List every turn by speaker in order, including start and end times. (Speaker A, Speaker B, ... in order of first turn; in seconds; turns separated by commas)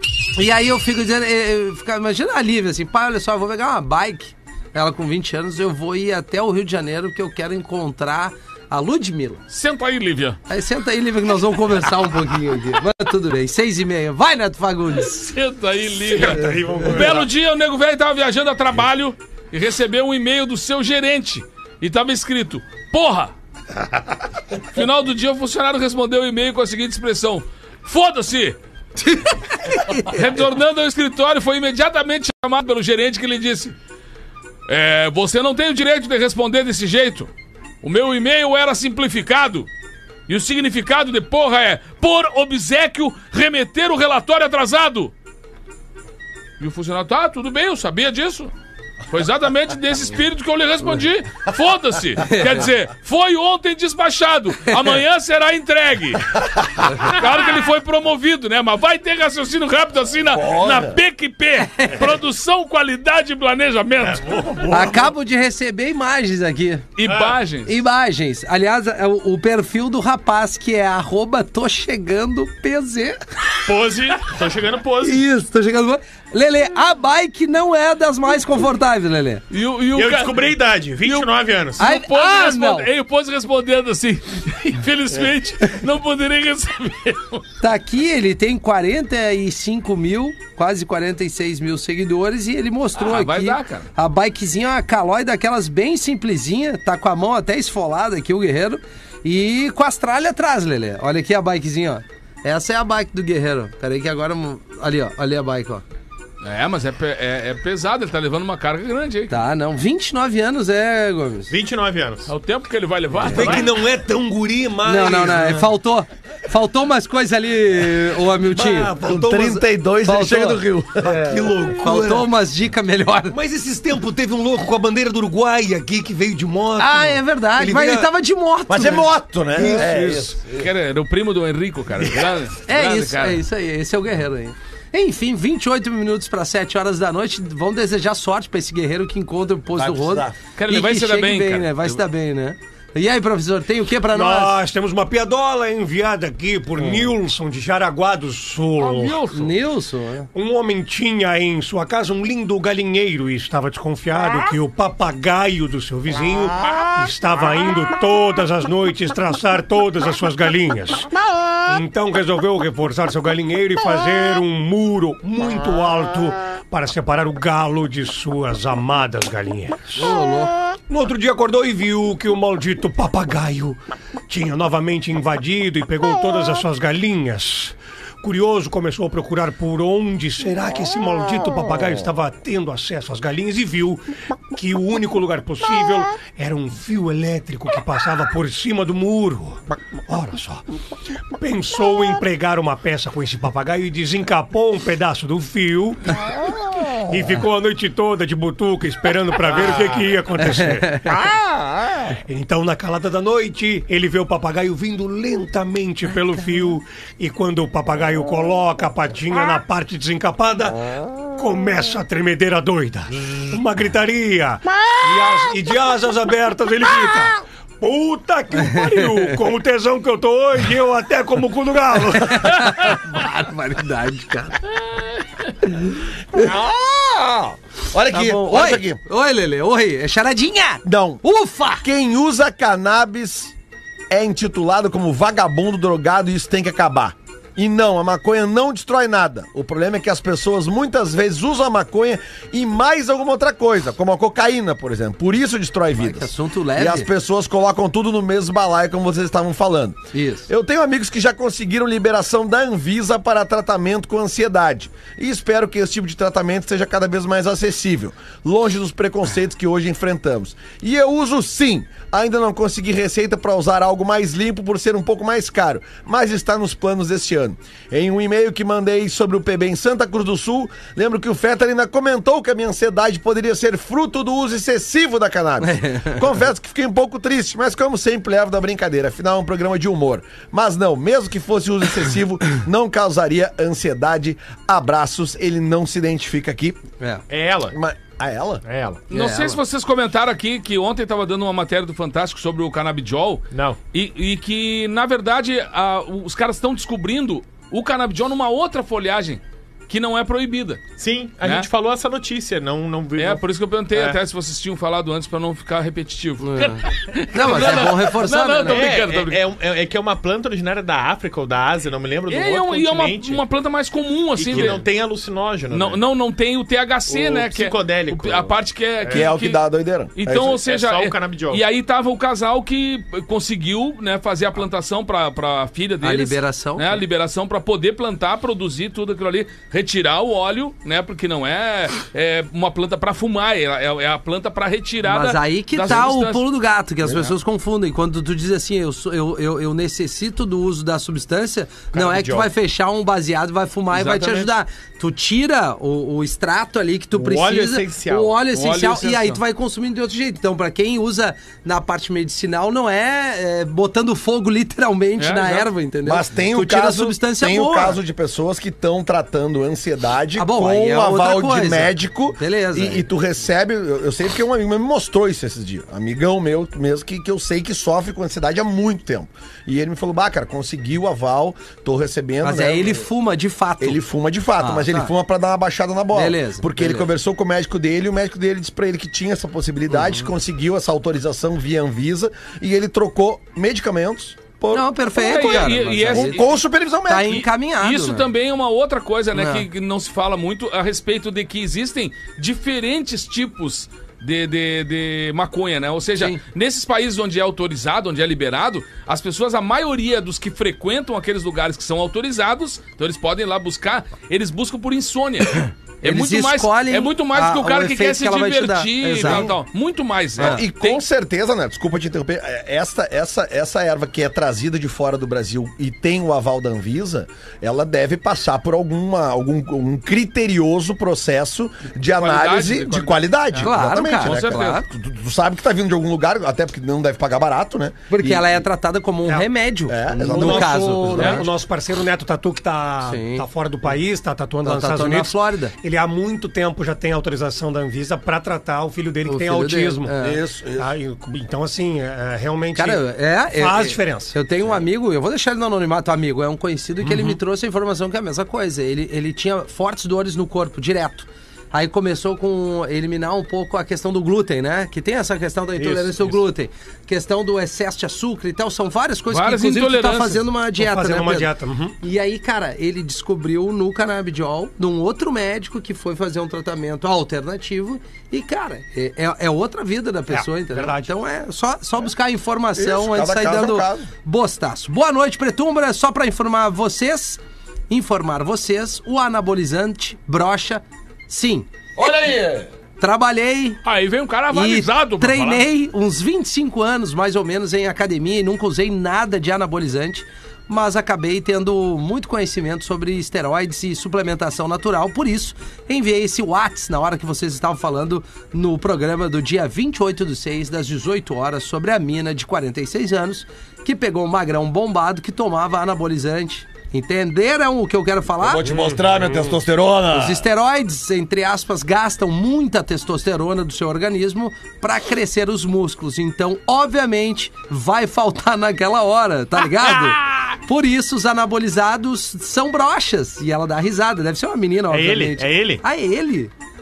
Speaker A: 0.3-9.4, Speaker B: 9.5-10.4, Speaker A: 10.5-15.3, Speaker B: 15.2-23.3, Speaker C: 16.1-17.3, Speaker B: 24.6-28.6, Speaker A: 29.0-30.2, Speaker B: 29.9-33.7, Speaker B: 34.7-37.3, Speaker B: 37.8-39.7, Speaker B: 40.3-45.1, Speaker B: 46.6-48.5, Speaker B: 49.1-64.9, Speaker A: 52.3-52.5, Speaker D: 60.3-61.0, Speaker A: 61.6-62.1, Speaker E: 64.1-65.1, Speaker A: 64.7-66.8, Speaker B: 67.0-67.8, Speaker E: 67.0-67.4, Speaker A: 67.7-73.2, Speaker E: 73.7-75.2, Speaker A: 75.0-79.4, Speaker B: 79.5-80.4, Speaker E: 79.9-81.8, Speaker B: 81.0-87.4, Speaker A: 81.8-82.9, Speaker A: 87.6-105.8, Speaker B: 93.0-93.9, Speaker B: 106.4-109.4, Speaker A: 109.3-111.5, Speaker E: 111.5-112.3, Speaker B: 112.3-113.8, Speaker C: 113.2-115.7, Speaker A: 114.8-119.0, Speaker C: 118.5-119.6, Speaker D: 119.0-121.5, Speaker A: 120.0-120.6, Speaker C: 121.0-122.3, Speaker A: 121.8-123.4, Speaker C: 123.3-128.1, Speaker A: 126.8-129.1, Speaker D: 128.7-130.7, Speaker C: 129.5-130.4, Speaker B: 130.5-133.4, Speaker A: 132.7-144.5, Speaker D: 139.7-140.4, Speaker B: 140.6-142.0, Speaker C: 144.1-149.3, Speaker B: 148.8-149.5, Speaker A: 149.3-150.3, Speaker C: 150.3-161.1, Speaker C: 161.7-170.2, Speaker A: 169.9-170.5, Speaker C: 170.9-190.6, Speaker C: 191.3-196.4, Speaker C: 197.1-201.4, Speaker E: 199.5-200.1, Speaker A: 200.6-201.1, Speaker C: 202.2-222.9, Speaker A: 218.6-219.3, Speaker A: 222.1-224.6, Speaker D: 226.3-229.0, Speaker A: 228.1-231.8, Speaker D: 230.8-231.2, Speaker D: 231.8-233.5, Speaker D: 234.1-286.8, Speaker A: 245.9-247.1, Speaker A: 250.1-250.5, Speaker A: 275.6-276.2, Speaker E: 287.3-287.8, Speaker D: 287.7-288.6, Speaker E: 288.6-289.0, Speaker B: 289.1-300.8, Speaker A: 289.1-289.6, Speaker E: 293.5-293.8, Speaker E: 301.0-304.2, Speaker B: 301.4-301.7, Speaker B: 303.1-309.4, Speaker A: 306.4-308.9, Speaker E: 307.4-308.0, Speaker E: 308.6-313.4, Speaker B: 312.3-314.9, Speaker E: 314.4-316.0, Speaker B: 315.7-319.6, Speaker E: 317.1-319.3, Speaker D: 319.1-320.6, Speaker B: 320.1-336.4, Speaker E: 320.3-321.6, Speaker A: 326.0-327.0, Speaker A: 335.0-358.0, Speaker D: 337.0-337.3, Speaker E: 341.9-342.5, Speaker B: 343.9-344.5, Speaker E: 347.1-348.4, Speaker B: 348.5-349.4, Speaker B: 355.2-355.7, Speaker D: 356.0-373.1, Speaker A: 360.4-363.1, Speaker A: 372.4-374.0, Speaker D: 373.8-387.5, Speaker A: 374.6-375.1, Speaker A: 376.1-377.1, Speaker A: 379.9-380.3, Speaker A: 384.7-386.5, Speaker B: 385.1-386.6, Speaker A: 387.1-388.3, Speaker B: 387.3-411.0, Speaker A: 389.3-389.6, Speaker A: 406.0-409.5, Speaker D: 409.2-409.5, Speaker D: 410.4-428.6, Speaker A: 410.4-410.6, Speaker B: 422.1-423.3, Speaker A: 423.6-424.8, Speaker B: 424.2-424.8, Speaker A: 428.1-431.5, Speaker D: 429.9-431.2, Speaker C: 430.2-440.1, Speaker B: 431.1-431.4, Speaker A: 433.0-433.4, Speaker A: 434.6-435.7, Speaker A: 439.2-440.4, Speaker D: 440.2-440.9, Speaker C: 440.8-444.4, Speaker A: 442.7-481.7, Speaker E: 455.8-456.3, Speaker B: 459.3-460.4, Speaker C: 460.8-461.9, Speaker C: 470.3-471.1, Speaker D: 472.7-474.1, Speaker D: 481.9-482.7, Speaker A: 483.0-483.8, Speaker B: 483.8-485.6, Speaker A: 484.5-508.7, Speaker D: 508.4-510.4, Speaker C: 508.7-509.4, Speaker A: 510.1-526.5, Speaker E: 524.9-525.8